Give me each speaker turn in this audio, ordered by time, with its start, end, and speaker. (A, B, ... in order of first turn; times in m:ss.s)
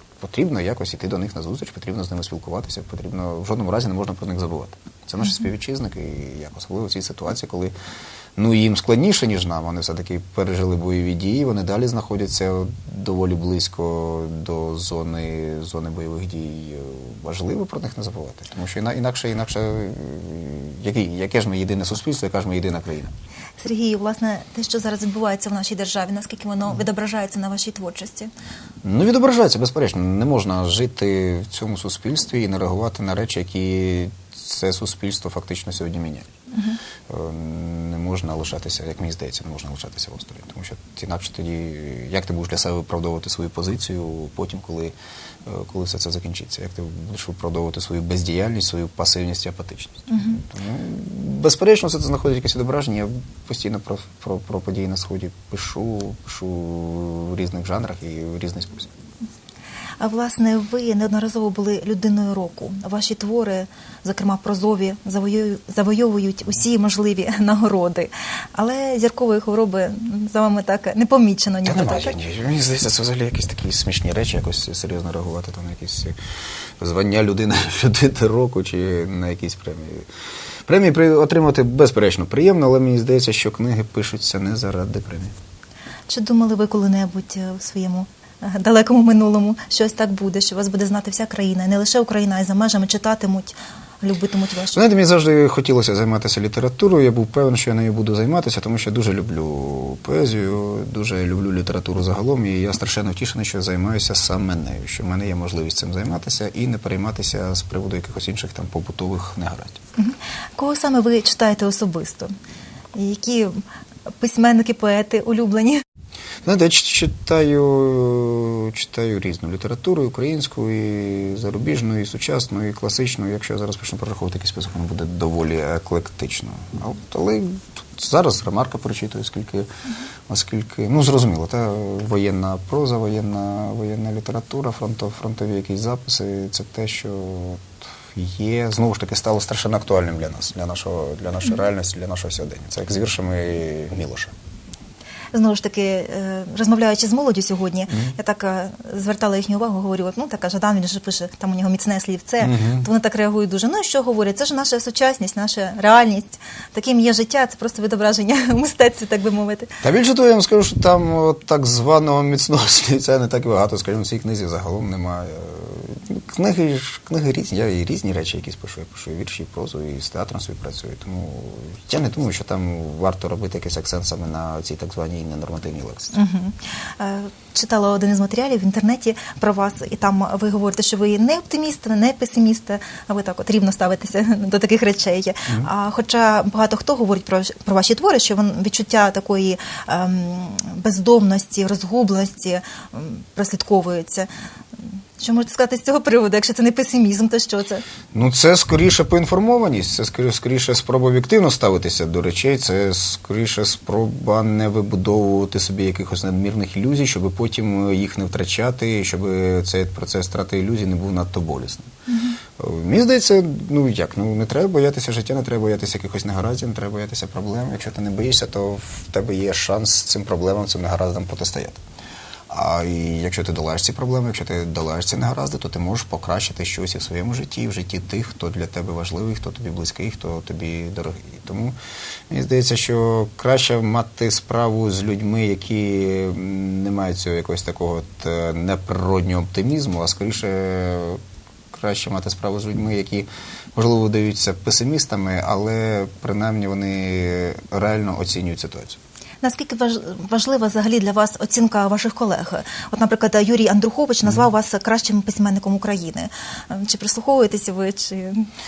0:00.2-0:07.7 A
0:08.4-0:23.1 A
0:23.6-0:28.3 B
0:28.8-0:36.3 A
0:36.5-0:36.8 B
0:37.1-0:58.9 A
0:50.1-0:50.4 B
1:00.0-1:12.2 B
1:11.6-1:16.2 A
1:16.8-1:20.0 A
1:20.7-1:25.3 A
1:26.1-1:34.8 B
1:34.7-1:49.8 A
1:50.0-1:52.3 B
1:52.9-1:53.6 B
1:54.2-1:55.8 B
1:56.4-2:09.7 A
2:10.3-2:24.3 A
2:25.3-2:39.8 B
2:32.4-2:32.9 A
2:39.8-2:56.1 A
2:56.1-3:14.3 B
3:14.8-3:17.8 B
3:18.1-3:31.9 A
3:32.1-3:32.4 B
3:32.6-3:41.8 A
3:42.5-3:51.7 A
3:52.3-4:01.2 A
4:01.7-4:09.0 A
4:09.4-4:18.5 B